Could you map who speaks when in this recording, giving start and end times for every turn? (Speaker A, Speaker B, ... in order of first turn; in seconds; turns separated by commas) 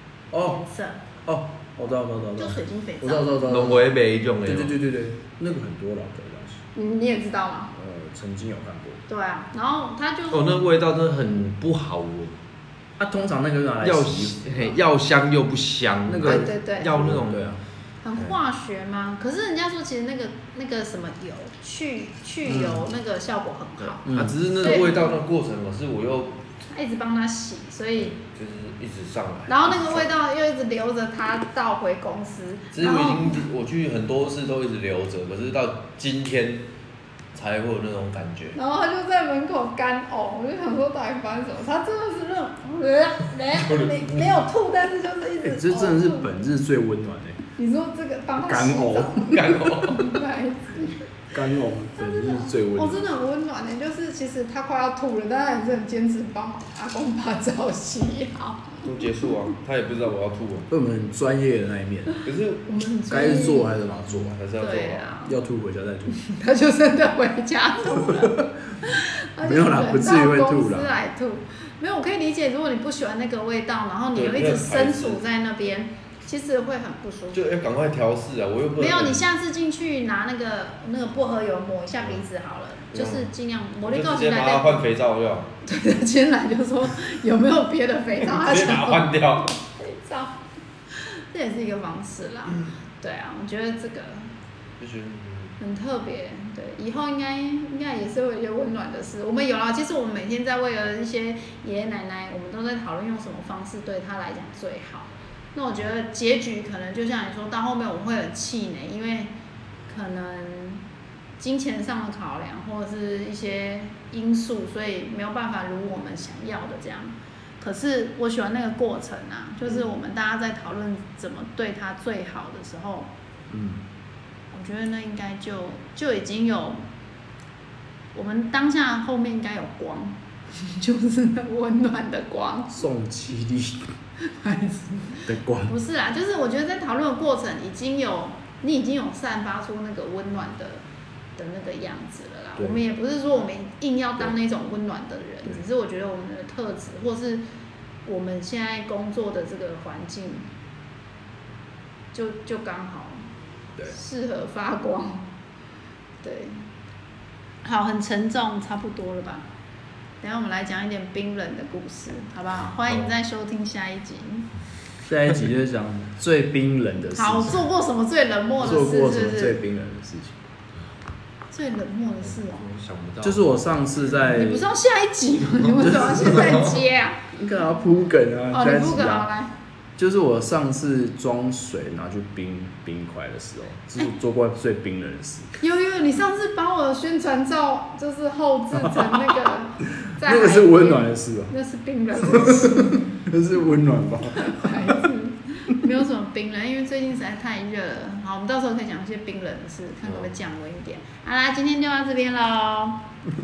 Speaker A: 0.3-0.6, Speaker B: 0.4-1.0, Speaker A: 1.2-3.9, Speaker B: 2.4-3.4, Speaker C: 3.4-4.8, Speaker A: 4.4-6.6, Speaker B: 6.7-7.7, Speaker A: 7.7-9.0, Speaker B: 9.1-10.6, Speaker C: 10.3-12.3, Speaker A: 13.0-14.8, Speaker C: 13.8-17.6, Speaker A: 16.1-17.6, Speaker B: 16.2-17.0, Speaker B: 18.0-25.2, Speaker A: 22.4-22.8, Speaker C: 24.0-26.4, Speaker A: 24.0-24.4, Speaker B: 26.7-28.1, Speaker C: 28.0-30.1, Speaker B: 29.5-33.4, Speaker C: 32.7-36.7, Speaker C: 37.3-38.6, Speaker B: 38.5-46.3, Speaker C: 43.4-44.4, Speaker A: 45.4-47.4, Speaker B: 47.6-51.0, Speaker A: 48.4-49.5, Speaker C: 49.3-50.1, Speaker A: 51.3-53.1, Speaker B: 52.0-58.9, Speaker C: 58.8-60.7, Speaker A: 60.7-62.1, Speaker C: 62.2-62.6, Speaker B: 62.6-63.8, Speaker A: 63.1-64.4, Speaker C: 64.1-65.1, Speaker B: 64.6-65.3, Speaker A: 65.2-66.2, Speaker B: 66.1-77.5, Speaker A: 68.0-68.5, Speaker A: 69.4-70.9, Speaker C: 74.1-75.2, Speaker C: 77.3-79.2, Speaker B: 78.8-84.8, Speaker C: 82.9-83.3, Speaker C: 83.8-85.5, Speaker B: 85.6-90.4, Speaker C: 88.3-89.5, Speaker B: 90.9-94.3, Speaker C: 94.8-95.6, Speaker B: 95.6-109.3, Speaker B: 109.9-110.8, Speaker B: 111.4-123.1, Speaker A: 123.5-123.8, Speaker B: 124.5-126.8, Speaker B: 128.1-132.8, Speaker A: 132.7-133.9, Speaker B: 134.2-140.8, Speaker A: 135.2-135.7, Speaker B: 141.4-147.4, Speaker B: 148.0-150.4, Speaker B: 152.1-153.2, Speaker B: 153.9-155.3, Speaker B: 156.2-156.6, Speaker B: 157.6-159.4, Speaker B: 160.2-164.5, Speaker A: 165.1-167.6, Speaker B: 167.2-169.6, Speaker A: 168.6-170.4, Speaker B: 171.5-172.7, Speaker C: 172.2-173.5, Speaker A: 173.2-174.7, Speaker B: 174.3-177.2, Speaker A: 175.8-176.3, Speaker C: 176.2-176.8, Speaker A: 177.3-179.3, Speaker B: 178.5-179.5, Speaker A: 180.0-185.5, Speaker B: 185.6-193.1, Speaker A: 188.7-189.4, Speaker A: 190.0-191.5, Speaker A: 192.2-195.0, Speaker B: 194.3-203.0, Speaker C: 200.0-200.3